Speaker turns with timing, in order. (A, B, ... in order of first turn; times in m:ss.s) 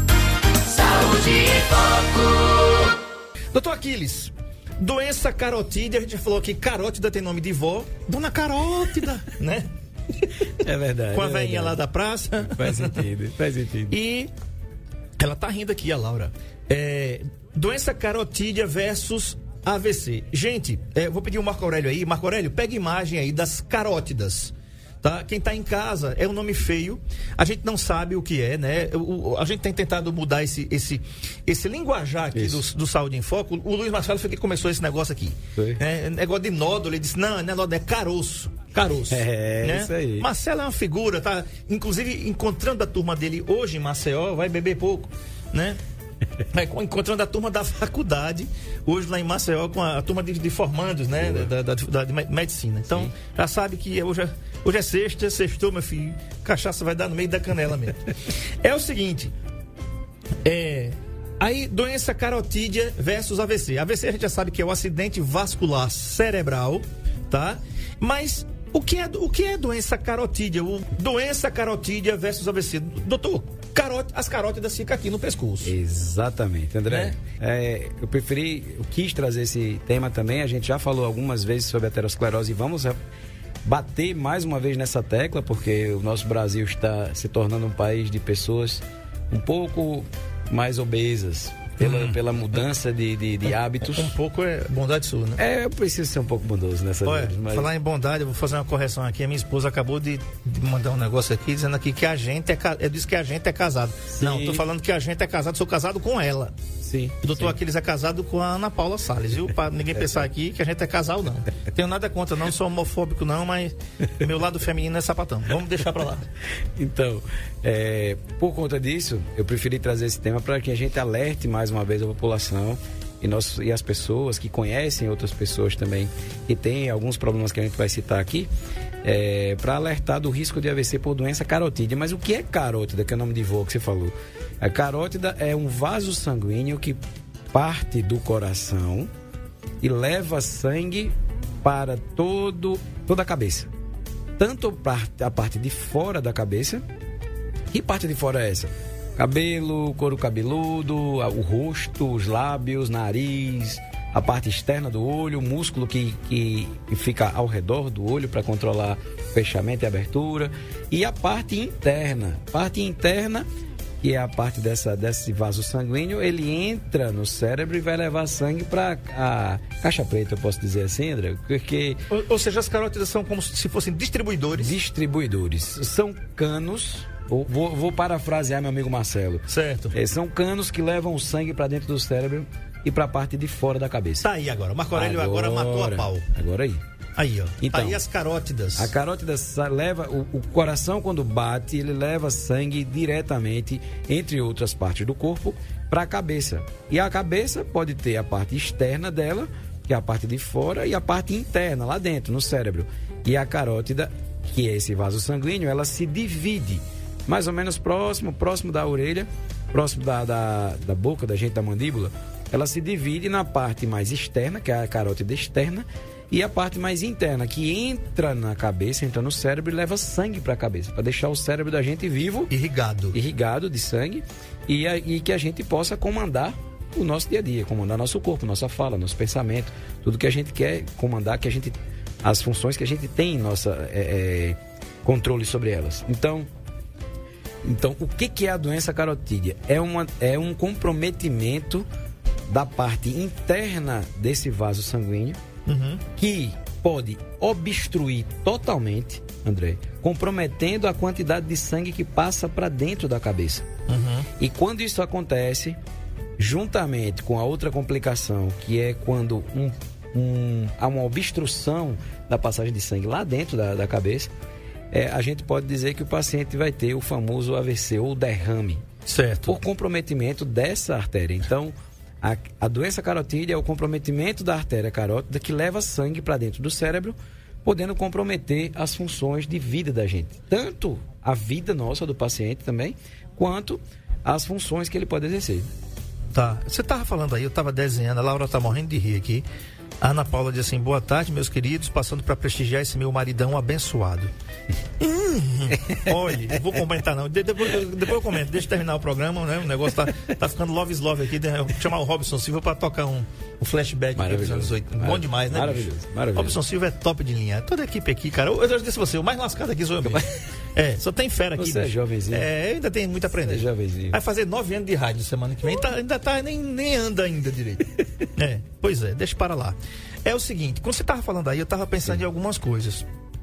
0:00.6-0:03.0 A
0:03.5-0:10.4 B
0:10.4-0:11.8 C
0:11.1-0:13.0 B
0:12.4-0:14.0 C
0:13.9-0:14.3 B
0:15.2-0:45.8 B
0:32.3-0:32.6 C
0:35.6-0:35.8 C
0:39.1-0:40.3 C
0:46.5-0:59.3 B
1:00.4-1:15.7 B
1:15.6-1:23.0 C
1:16.9-1:17.1 B
1:23.6-1:34.1 C
1:31.8-1:32.2 B
1:33.9-1:35.4 B
1:35.4-1:37.7 C
1:37.0-1:46.5 B
1:44.1-1:44.6 C
1:46.8-1:47.5 C
1:47.2-1:56.3 B
1:56.6-2:08.5 C
2:09.0-2:17.0 C
2:17.5-2:19.1 C
2:19.8-2:23.7 C
2:24.4-2:26.8 C
2:27.7-2:43.4 C
2:44.0-2:52.0 C
2:52.1-2:54.7 B
2:54.5-3:04.3 C
2:59.5-2:59.9 B
3:04.2-3:06.3 B
3:04.9-3:06.8 C
3:07.2-3:08.9 B
3:07.6-3:08.0 C
3:08.8-3:42.5 C
3:42.5-3:43.2 B
3:43.1-3:56.5 C
3:57.6-4:01.8 C
4:02.5-4:05.4 C
4:05.6-4:06.0 B
4:06.1-4:13.6 C
4:13.9-4:14.3 B
4:14.4-4:15.8 C
4:16.4-4:24.3 C
4:24.9-4:28.8 C
4:29.0-4:29.6 B
4:29.4-4:45.7 C
4:46.3-4:49.4 B
4:50.0-4:54.3 B
4:55.0-5:23.1 B
5:04.2-5:06.6 C
5:10.0-5:10.4 C
5:11.6-5:12.5 C
5:13.4-5:14.2 C